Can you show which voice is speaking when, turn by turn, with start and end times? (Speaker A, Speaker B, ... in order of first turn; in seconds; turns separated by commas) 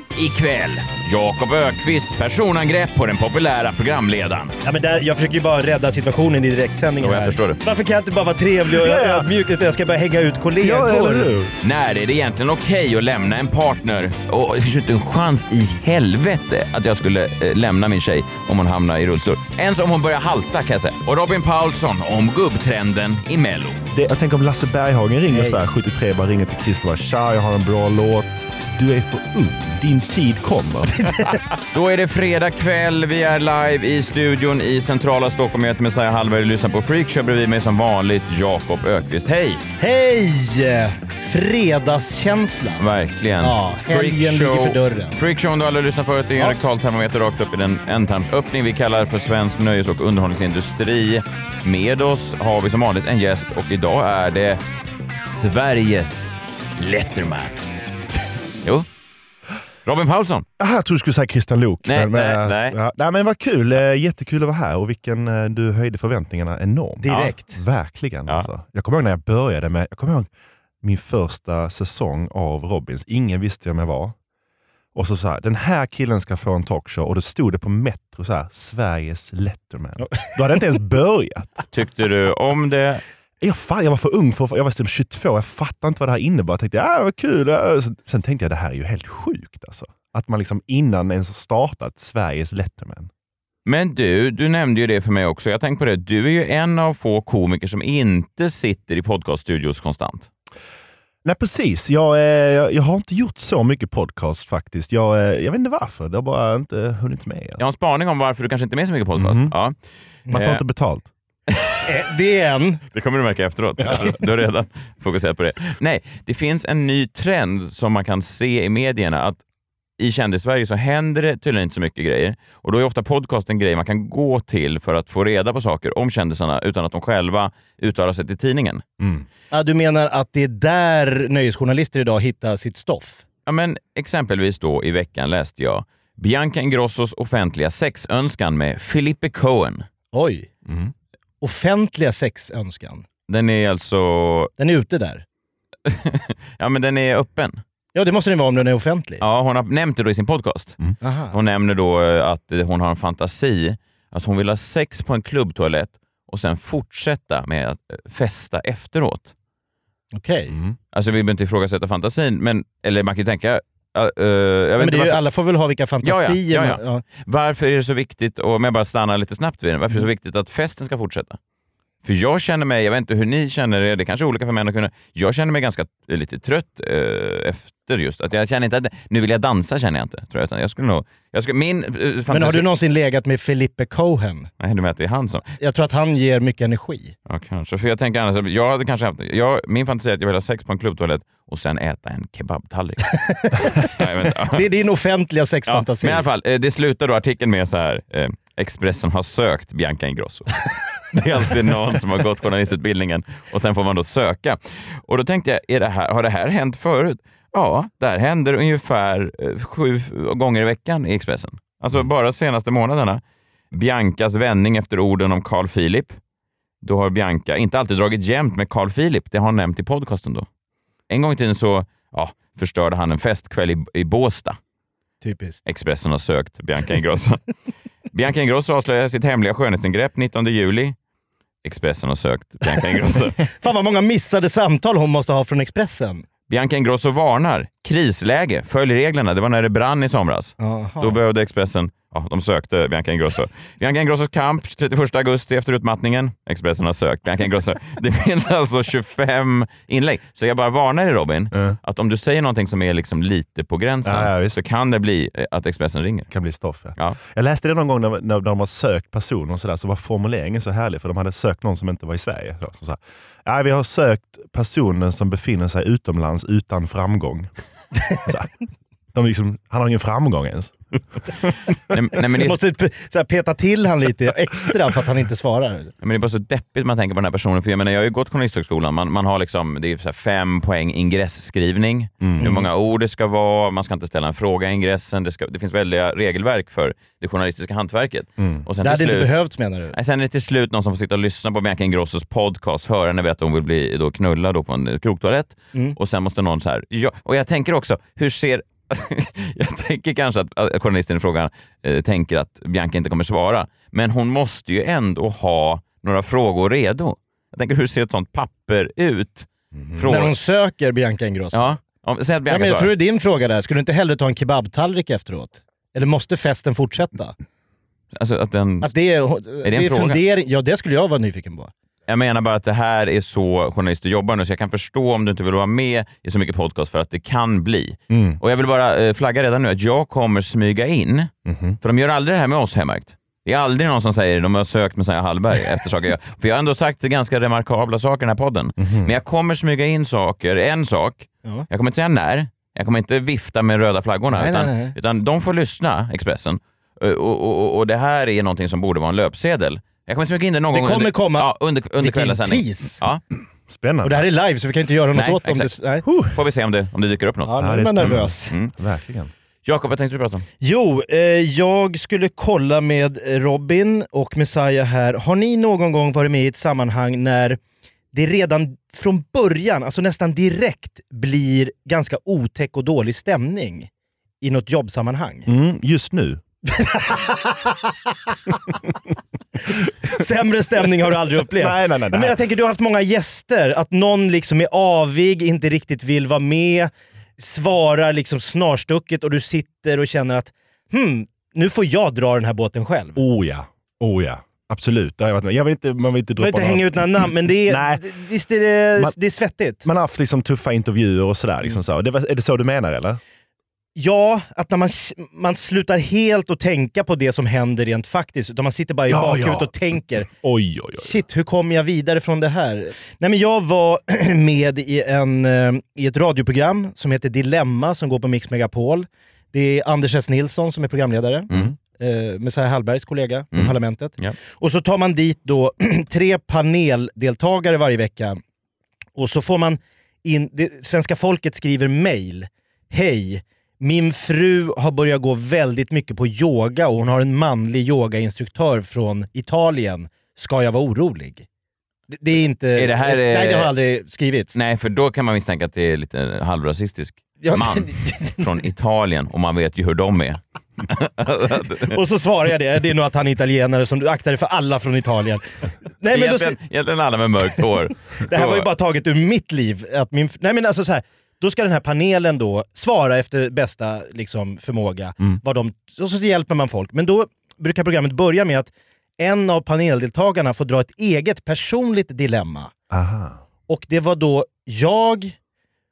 Speaker A: 0.1-4.6, Speaker B: 4.6-11.3, Speaker A: 7.0-7.6, Speaker C: 8.8-9.3, Speaker C: 10.6-11.5, Speaker A: 11.6-23.8, Speaker C: 23.9-31.1, Speaker B: 25.3-25.6, Speaker B: 31.0-31.4, Speaker A: 31.7-39.6, Speaker B: 39.8-42.8, Speaker A: 42.8-54.6, Speaker B: 43.4-45.2, Speaker A: 55.2-57.6, Speaker A: 59.9-60.5, Speaker C: 60.6-70.3, Speaker A: 61.9-62.8, Speaker B: 67.0-67.6, Speaker C: 70.8-74.2, Speaker C: 74.9-81.6, Speaker A: 81.7-83.0, Speaker C: 83.4-93.1, Speaker A: 93.7-100.3, Speaker C: 101.2-107.7, Speaker A: 107.6-109.8, Speaker C: 109.2-109.5, Speaker A: 110.3-110.6, Speaker C: 110.3-111.1, Speaker A: 111.5-111.8, Speaker B: 111.8-112.8, Speaker A: 112.9-119.4, Speaker A: 120.0-128.8, Speaker C: 129.0-129.2, Speaker B: 129.5-133.2, Speaker A: 133.5-139.8, Speaker B: 140.1-140.5, Speaker C: 140.7-140.9, Speaker B: 141.4-143.1, Speaker A: 143.3-144.5, Speaker B: 144.6-145.2, Speaker A: 145.9-147.6, Speaker B: 147.9-149.2, Speaker A: 149.2-150.8, Speaker B: 151.0-151.3, Speaker A: 151.3-159.3, Speaker B: 160.1-160.6, Speaker C: 160.5-160.8, Speaker A: 160.9-165.2, Speaker B: 164.8-167.0, Speaker A: 166.0-171.4, Speaker A: 172.0-182.7, Speaker B: 182.3-184.5, Speaker A: 184.6-185.5, Speaker B: 185.6-187.2, Speaker A: 187.3-194.6, Speaker B: 193.3-193.7, Speaker B: 194.5-196.2, Speaker A: 195.7-213.2, Speaker A: 213.7-216.2, Speaker A: 216.8-220.5, Speaker A: 221.1-224.6, Speaker B: 225.2-225.6, Speaker A: 225.7-227.4, Speaker A: 228.1-231.0, Speaker A: 231.6-233.4, Speaker B: 233.4-236.2, Speaker A: 236.5-256.3, Speaker B: 240.6-241.2, Speaker C: 254.1-254.6, Speaker C: 256.3-267.5, Speaker C: 268.2-268.5, Speaker C: 269.1-270.8, Speaker A: 271.9-272.6, Speaker B: 272.4-275.9, Speaker A: 276.0-289.3, Speaker C: 282.2-282.5, Speaker B: 282.4-282.7, Speaker C: 288.4-288.6, Speaker B: 288.8-289.9, Speaker A: 289.9-310.4, Speaker C: 309.8-310.1, Speaker B: 310.1-311.6, Speaker A: 311.5-312.9, Speaker B: 312.5-317.4, Speaker A: 318.1-318.9, Speaker B: 318.8-321.7, Speaker A: 319.6-320.2, Speaker A: 322.1-353.2, Speaker C: 328.1-328.4, Speaker C: 331.5-331.8, Speaker C: 338.8-339.1, Speaker B: 344.3-344.9, Speaker B: 350.7-351.5, Speaker B: 352.0-353.0, Speaker C: 353.7-354.3, Speaker B: 354.0-356.1, Speaker A: 355.1-355.7, Speaker C: 356.0-356.4, Speaker A: 356.3-358.7, Speaker B: 357.5-358.5, Speaker C: 357.6-359.3, Speaker A: 359.7-360.5, Speaker B: 360.6-367.6, Speaker B: 368.1-373.9, Speaker B: 374.4-375.5, Speaker C: 375.5-376.4, Speaker B: 376.7-377.7, Speaker B: 380.1-393.2, Speaker C: 381.6-382.4, Speaker C: 393.2-398.1, Speaker B: 396.4-399.9, Speaker C: 399.8-403.2, Speaker B: 404.0-410.3, Speaker C: 409.1-409.7, Speaker C: 410.3-411.2, Speaker B: 411.0-428.4, Speaker A: 423.5-424.4, Speaker B: 429.2-441.5, Speaker B: 442.1-444.6, Speaker A: 442.8-443.7, Speaker A: 444.5-451.9, Speaker B: 447.4-448.4, Speaker B: 451.9-455.4, Speaker B: 456.0-456.6, Speaker A: 456.1-458.7, Speaker B: 458.3-472.7, Speaker C: 472.9-473.4, Speaker B: 473.7-475.4